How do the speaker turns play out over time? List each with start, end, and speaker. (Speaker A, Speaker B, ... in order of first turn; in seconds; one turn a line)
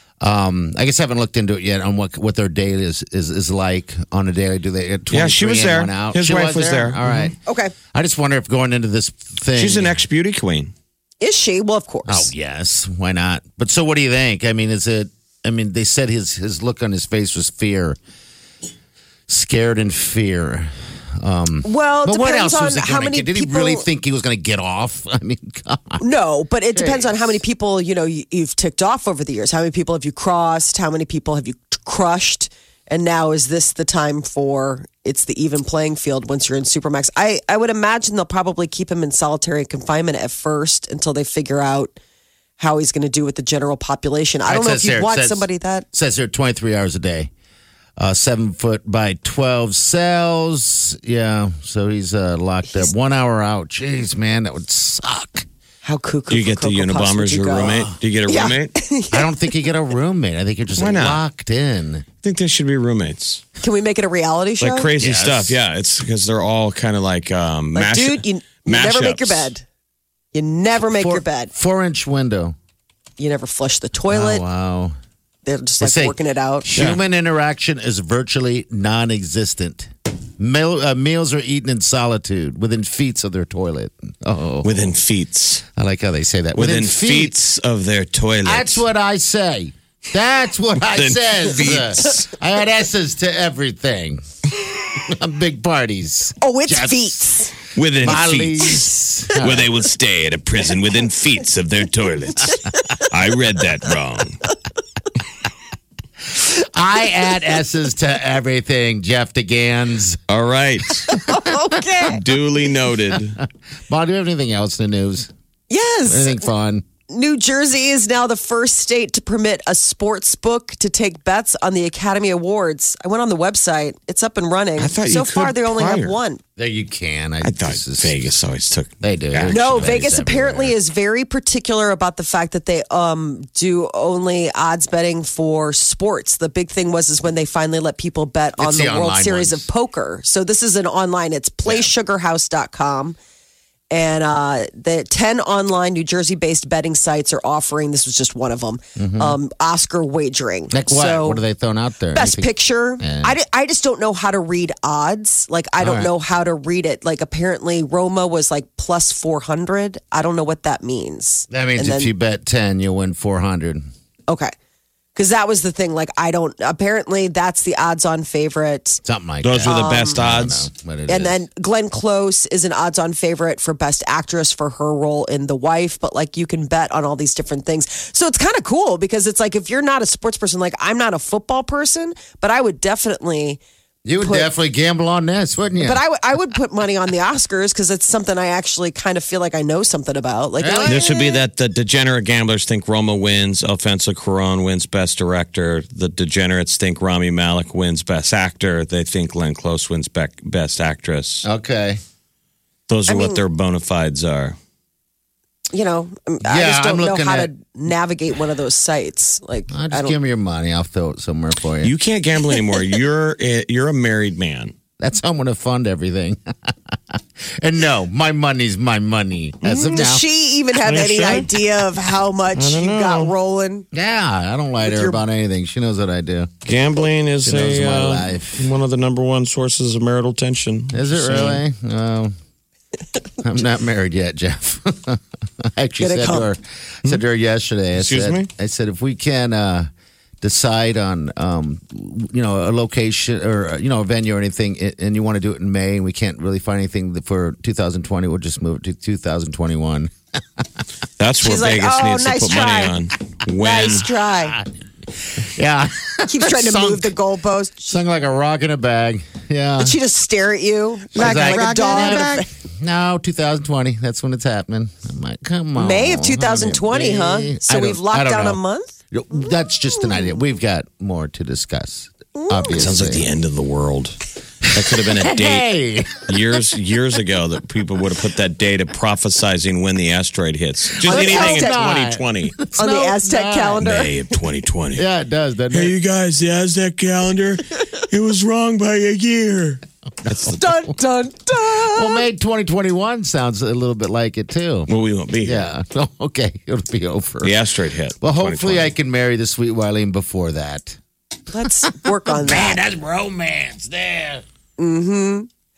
Speaker A: 0.2-7.4
Speaker B: 5.1-7.3
Speaker C: 7.5-7.7
Speaker A: 7.9-10.0
Speaker B: 9.6-10.7
Speaker C: 11.2-12.3
Speaker A: 12.1-18.0
Speaker A: 19.3-26.0
Speaker C: 21.6-23.9
Speaker C: 26.0-42.0
Speaker A: 26.7-27.4
Speaker C: 42.6-45.9
Speaker A: 44.5-47.3
Speaker A: 48.0-55.5
Speaker C: 55.8-59.3
Speaker B: 56.3-58.8
Speaker A: 57.5-58.0
Speaker A: 59.1-62.1
Speaker B: 60.8-61.2
Speaker B: 62.2-63.4
Speaker C: 63.6-64.9
Speaker B: 64.6-69.5
Speaker A: 65.0-65.6
Speaker C: 67.8-69.6
Speaker C: 70.3-71.5
Speaker A: 71.0-72.5
Speaker C: 73.2-74.4
Speaker A: 74.1-75.0
Speaker C: 75.5-76.7
Speaker A: 75.8-84.8
Speaker B: 84.6-85.7
Speaker A: 85.8-87.4
Speaker B: 86.6-88.8
Speaker A: 88.5-94.3
Speaker B: 90.9-92.3
Speaker A: 94.9-97.2
Speaker C: 96.4-97.5
Speaker B: 97.8-104.4
Speaker A: 98.0-99.7
Speaker A: 106.3-110.2
Speaker B: 110.3-111.2
Speaker C: 111.1-112.2
Speaker B: 112.1-113.4
Speaker A: 113.9-115.3
Speaker C: 115.7-116.5
Speaker A: 116.1-116.8
Speaker C: 117.1-126.4
Speaker B: 124.8-126.2
Speaker A: 126.6-128.2
Speaker B: 127.4-129.9
Speaker A: 129.0-130.8
Speaker C: 129.5-143.2
Speaker A: 138.6-139.7
Speaker C: 143.9-151.4
Speaker A: 149.0-149.4
Speaker A: 150.7-153.4
Speaker C: 152.1-162.1
Speaker A: 155.8-156.1
Speaker A: 161.5-163.9
Speaker C: 165.2-169.0
Speaker A: 169.0-171.4
Speaker B: 169.4-170.7
Speaker C: 169.6-170.2
Speaker C: 171.1-183.6
Speaker A: 184.1-186.0
Speaker C: 184.2-184.5
Speaker C: 185.8-191.4
Speaker A: 190.6-191.1
Speaker B: 190.9-201.5
Speaker A: 201.4-202.0
Speaker B: 202.9-204.6
Speaker C: 203.1-203.4
Speaker C: 205.7-210.2
Speaker A: 206.4-207.5
Speaker A: 209.7-211.9
Speaker B: 211.8-214.7
Speaker A: 215.0-220.2
Speaker B: 219.6-220.1
Speaker C: 219.9-223.9
Speaker B: 220.8-221.5
Speaker B: 222.6-223.3
Speaker A: 223.9-226.5
Speaker C: 224.8-225.2
Speaker B: 226.7-231.6
Speaker A: 227.4-228.7
Speaker A: 230.9-232.3
Speaker A: 233.4-239.9
Speaker C: 236.0-236.5
Speaker B: 238.0-238.5
Speaker A: 240.4-250.1
Speaker B: 251.2-254.1
Speaker C: 251.4-252.9
Speaker C: 253.6-254.6
Speaker A: 253.8-254.7
Speaker A: 255.2-257.1
Speaker C: 256.3-258.0
Speaker A: 257.9-260.0
Speaker C: 259.8-262.5
Speaker A: 261.1-268.6
Speaker B: 261.2-262.3
Speaker C: 265.8-268.9
Speaker A: 269.1-273.3
Speaker C: 272.4-272.9
Speaker B: 272.8-274.2
Speaker B: 274.7-275.7
Speaker A: 275.2-276.2
Speaker B: 276.2-282.6
Speaker A: 281.0-283.9
Speaker C: 281.1-281.8
Speaker C: 282.8-284.1
Speaker B: 283.8-285.1
Speaker A: 284.9-285.9
Speaker B: 285.7-290.6
Speaker A: 290.3-290.9
Speaker C: 290.5-292.2
Speaker A: 291.8-294.9
Speaker B: 294.9-295.7
Speaker A: 295.4-297.5
Speaker B: 297.4-298.9
Speaker A: 298.2-301.0
Speaker C: 301.5-302.8
Speaker A: 301.9-304.4
Speaker C: 304.8-305.5